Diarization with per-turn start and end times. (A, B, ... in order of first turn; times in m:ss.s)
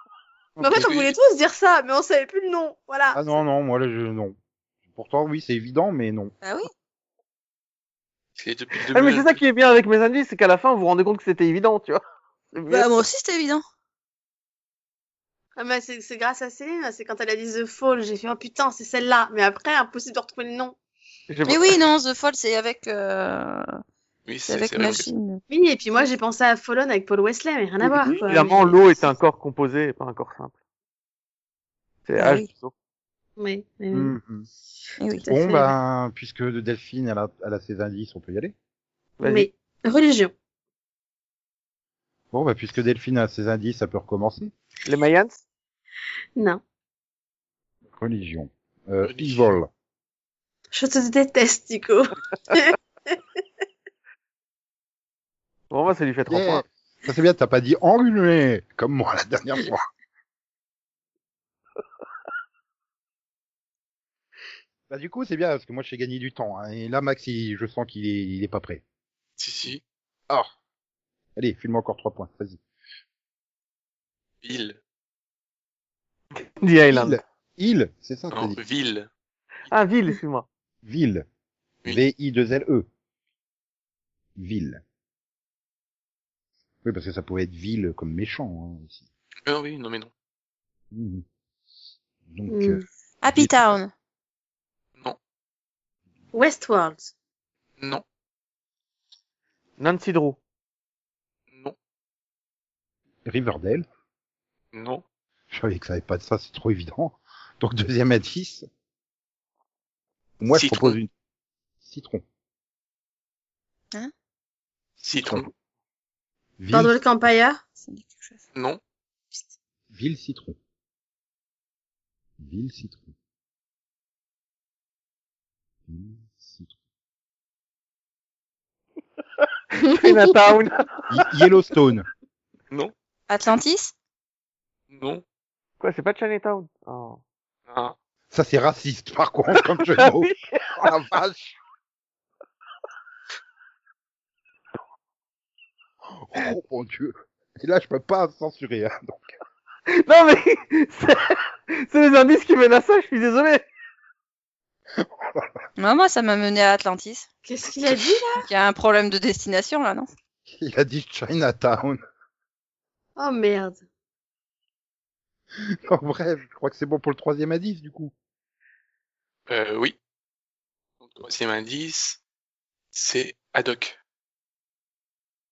0:00.6-0:03.2 A
0:00.6-0:01.2 B
0:03.1-0:04.4 C
0:04.9-0:06.3 C
0:06.4-0:06.7 D
0:08.4-0:09.4 B
0:08.9-0:12.9 E
0:12.6-0:13.6 D
0:15.6-0:20.8 A
0:21.3-0:21.7 E
0:21.4-0:23.8 D
0:24.2-0:25.1 B
0:24.4-0:25.4 D
0:25.5-0:28.7 A
0:27.8-0:30.5 E
0:28.0-0:28.6 D
0:32.0-0:32.7 E
0:32.2-0:32.5 D
0:33.4-0:34.1 A
0:33.9-0:34.5 C
0:35.0-0:35.2 D
0:35.2-0:35.7 A
0:35.3-0:38.5 C
0:39.2-0:39.5 E
0:39.2-0:40.3 A
0:42.3-0:44.5 C
0:44.8-0:45.4 E
0:46.4-0:46.6 A
0:48.0-0:49.7 C
0:49.0-0:49.5 B
0:50.7-0:53.2 A
0:55.7-0:56.6 E
0:56.3-0:59.8 C
1:04.9-1:08.8 C
1:09.4-1:09.8 B
1:11.4-1:12.6 C
1:14.4-1:14.8 B
1:16.3-1:17.2 E
1:16.9-1:18.6 C
1:18.3-1:19.1 B
1:19.7-1:20.4 E
1:20.8-1:21.2 C
1:21.8-1:22.9 C
1:24.4-1:24.8 C
1:26.8-1:29.0 C
1:29.4-1:30.1 B
1:30.9-1:31.2 C
1:32.3-1:33.8 C
1:32.5-1:32.8 A
1:33.2-1:33.9 D
1:36.3-1:37.1 A
1:37.8-1:38.0 B
1:39.8-1:40.4 E
1:43.2-1:43.8 C
1:44.7-1:45.0 B
1:45.5-1:48.6 C
1:50.4-1:51.1 C
1:50.5-1:51.0 B
1:51.8-1:52.2 C
1:55.0-1:55.5 B
1:55.2-1:55.5 C
1:56.6-1:57.0 C
1:56.7-1:57.6 A
1:57.8-1:58.4 D
1:58.5-1:58.8 B
1:59.9-2:00.6 C
2:02.4-2:03.1 C
2:05.9-2:06.7 C
2:09.7-2:11.3 E
2:09.9-2:10.3 A
2:11.1-2:12.1 C
2:13.3-2:13.9 D
2:14.9-2:15.2 B
2:15.8-2:17.2 E
2:17.7-2:17.9 B
2:18.3-2:21.6 C
2:19.8-2:20.8 E
2:26.2-2:29.2 C
2:29.9-2:33.6 E
2:35.8-2:37.3 D
2:37.4-2:38.5 A
2:38.4-2:40.1 D
2:40.5-2:42.0 C
2:43.2-2:43.8 A
2:45.9-2:48.1 C
2:49.5-2:50.0 B
2:51.0-2:52.2 B
2:52.9-2:54.0 B